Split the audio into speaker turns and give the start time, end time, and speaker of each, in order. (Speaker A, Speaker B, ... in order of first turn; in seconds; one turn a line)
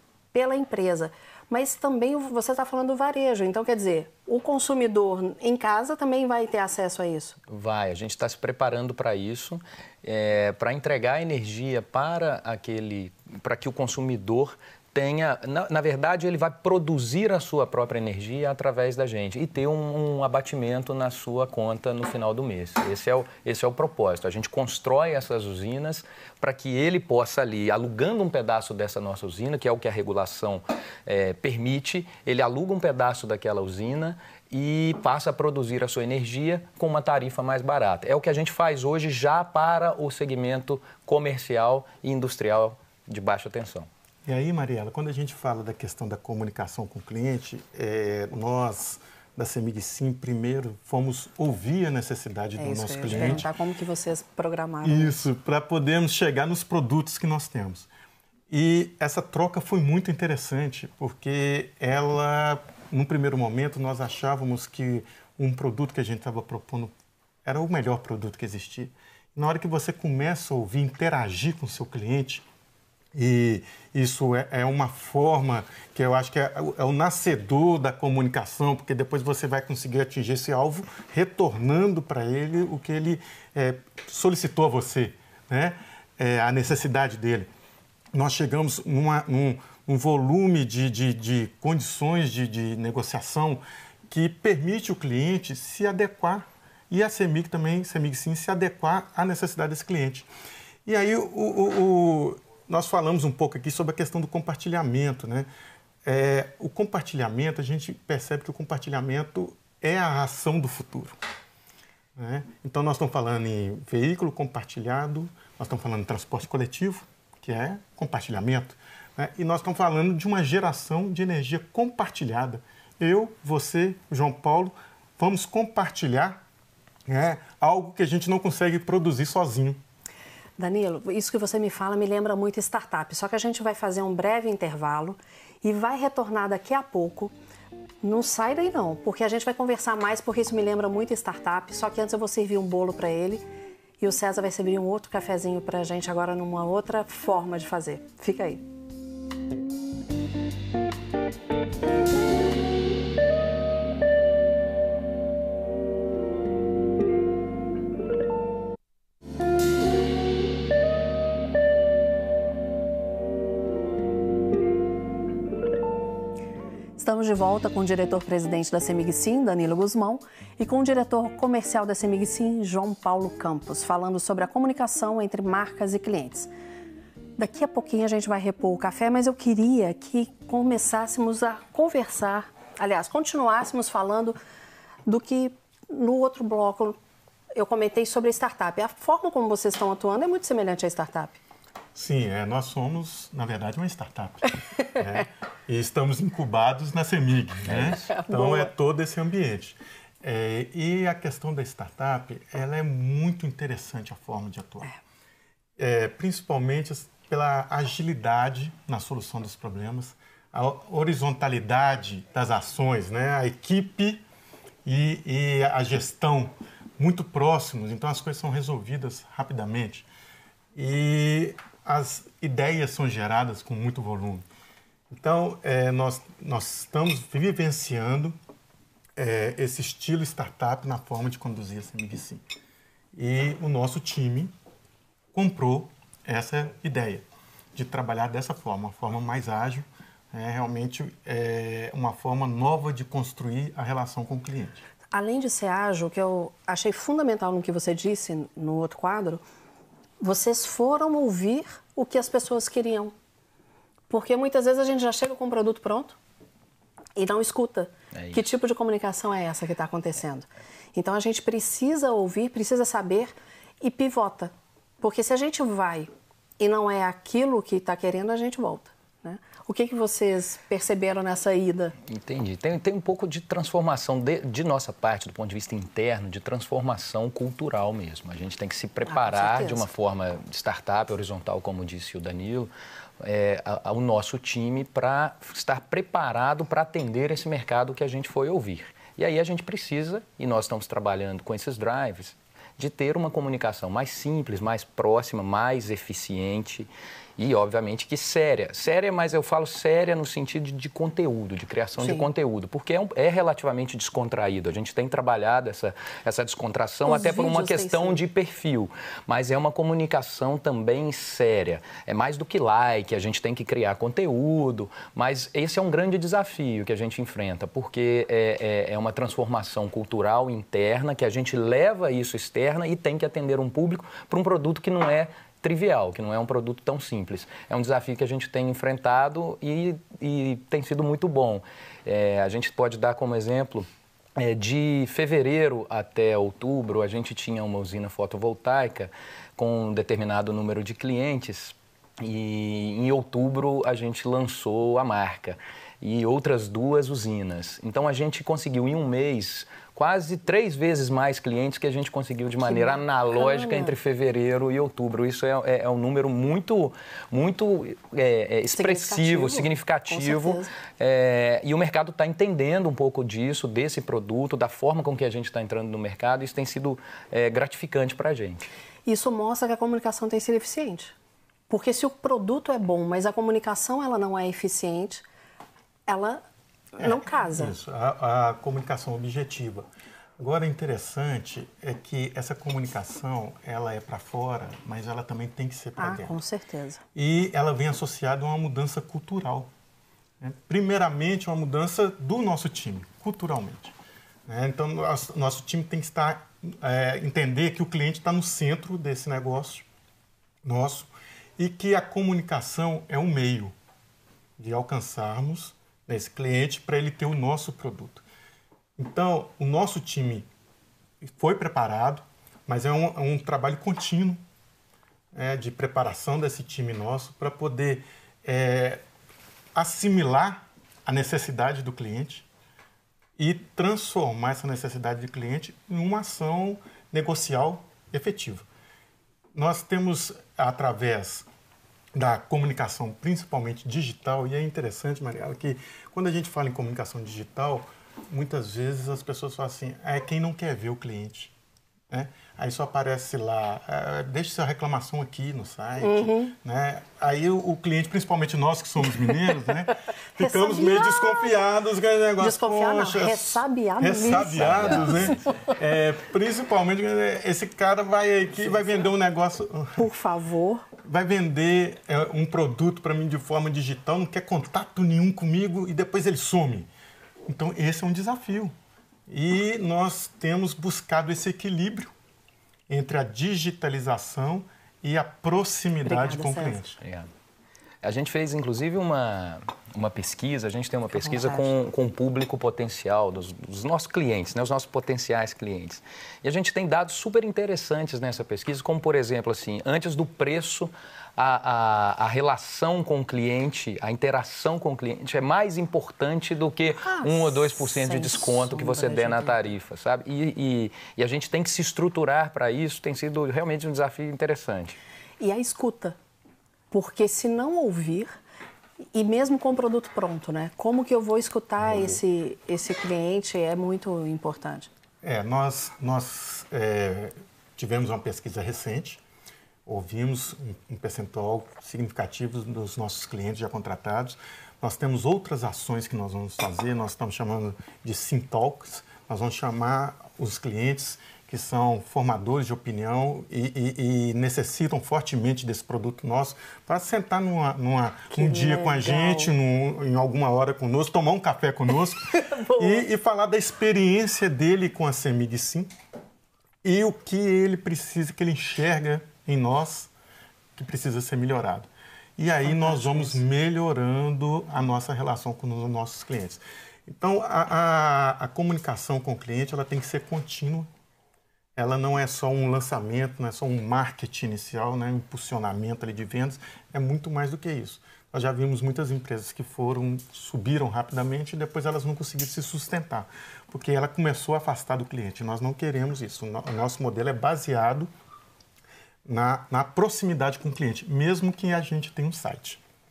Speaker A: 0.3-7.4
Speaker B: 7.5-43.9
Speaker C: 44.3-53.5
Speaker A: 52.6-55.2
Speaker B: 53.1-53.4
Speaker C: 54.8-57.9
Speaker C: 58.5-66.9
Speaker C: 67.5-72.5
Speaker C: 73.1-87.5
Speaker C: 88.1-100.3
Speaker C: 100.9-105.5
Speaker C: 106.0-111.2
Speaker C: 112.2-126.4
Speaker C: 127.1-129.8
Speaker A: 130.6-137.3
Speaker A: 138.0-143.5
Speaker A: 144.0-148.6
Speaker A: 167.0-176.5
Speaker A: 177.4-184.4
Speaker A: 185.1-187.0
Speaker A: 187.6-191.4
Speaker C: 191.9-204.9
Speaker A: 197.8-198.7
Speaker C: 205.8-214.2
Speaker C: 214.8-220.1
Speaker C: 220.8-224.4
Speaker C: 225.1-228.4
Speaker C: 229.2-232.4
Speaker C: 233.2-234.5
Speaker C: 235.3-237.2
Speaker C: 237.7-244.9
Speaker A: 245.1-249.4
Speaker A: 250.2-253.1
Speaker A: 254.1-256.2
Speaker A: 257.2-271.9
Speaker B: 258.1-258.5
Speaker B: 272.1-368.7
Speaker A: 279.1-279.9
Speaker A: 302.0-302.3
Speaker A: 307.1-308.2
Speaker A: 352.6-353.9
Speaker A: 358.7-360.7
Speaker A: 369.1-371.1
Speaker A: 371.7-375.2
Speaker A: 376.1-376.4
Speaker A: 376.9-377.8
Speaker C: 377.0-379.9
Speaker C: 380.4-386.4
Speaker A: 386.0-387.0
Speaker C: 387.1-389.7
Speaker C: 390.4-393.9
Speaker C: 394.5-399.9
Speaker C: 400.6-403.7
Speaker C: 404.6-408.2
Speaker C: 409.0-410.5
Speaker C: 411.2-414.4
Speaker C: 415.3-419.0
Speaker C: 419.8-422.5
Speaker C: 423.4-428.7
Speaker C: 429.5-431.5
Speaker C: 432.1-441.5
Speaker C: 442.1-460.1
Speaker A: 446.0-446.5
Speaker A: 450.4-451.4
Speaker A: 452.4-455.4
Speaker B: 454.6-455.1
Speaker A: 460.0-460.9
Speaker C: 461.0-466.9
Speaker C: 467.5-468.7
Speaker C: 469.3-472.1
Speaker C: 472.9-476.9
Speaker A: 476.1-476.9
Speaker B: 477.0-477.3
Speaker B: 478.0-505.0
Speaker A: 481.1-481.7
Speaker A: 497.0-499.7
Speaker A: 505.4-506.2
Speaker A: 506.9-508.3
Speaker A: 509.1-514.9
Speaker C: 511.8-512.2
Speaker C: 515.2-519.2
Speaker C: 519.9-545.9
Speaker A: 538.3-539.5
Speaker A: 542.3-543.0
Speaker C: 546.8-550.1
Speaker C: 550.8-560.9
Speaker A: 552.6-553.4
Speaker C: 561.8-578.1
Speaker C: 579.2-582.8